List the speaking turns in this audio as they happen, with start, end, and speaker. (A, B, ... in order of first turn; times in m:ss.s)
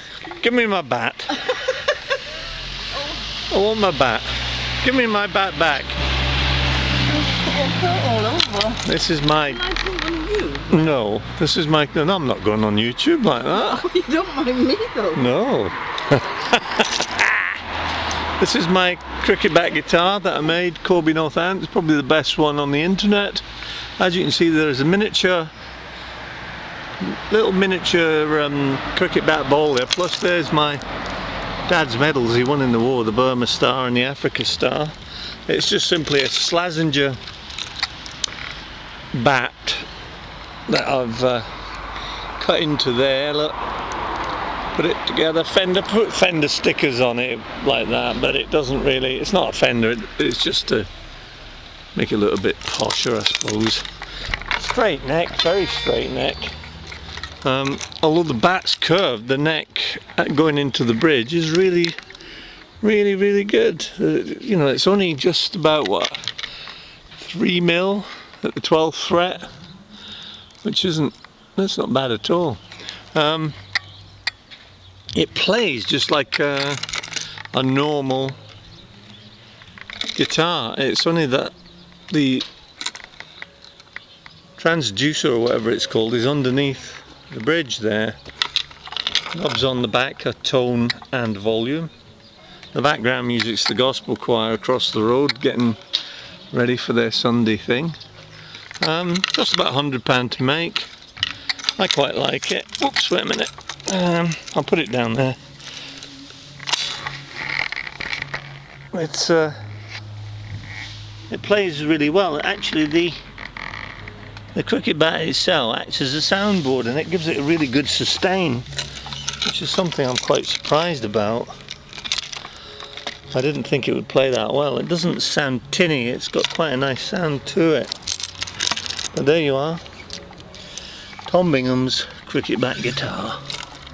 0:00.2-0:01.5 A
0:03.5-0:06.0 A
0:07.1-0:08.8 B
0:08.8-0:09.7 A
0:09.5-0:10.8 B
0:10.7-0:13.9 A
0:13.7-0:15.2 B
0:15.1-0:17.6 A
0:18.4-0:23.5 A
0:24.0-0:25.5 A
0:27.0-0:30.8 A
0:31.7-0:37.2 A
0:39.1-0:39.9 A
0:40.7-0:41.5 A
0:42.4-0:43.6 A
0:44.8-0:50.9 A
0:52.0-0:53.9 A
0:54.5-0:56.6 A
0:57.4-1:02.0 A
1:02.8-1:06.2 A
1:07.2-1:09.5 A
1:10.6-1:12.6 A
1:13.1-1:13.6 A
1:15.1-1:16.8 A
1:17.5-1:18.4 A
1:20.1-1:21.5 A
1:22.1-1:22.5 A
1:24.6-1:28.2 A
1:29.3-1:31.9 A
1:32.7-1:35.8 A
1:36.5-1:38.0 A
1:38.8-1:40.9 A
1:41.8-1:45.4 A
1:48.9-1:49.6 A
1:51.3-1:53.2 A
1:54.5-1:58.7 A
1:59.4-2:01.5 A
2:03.3-2:07.9 A
2:09.1-2:09.8 A
2:11.3-2:13.4 A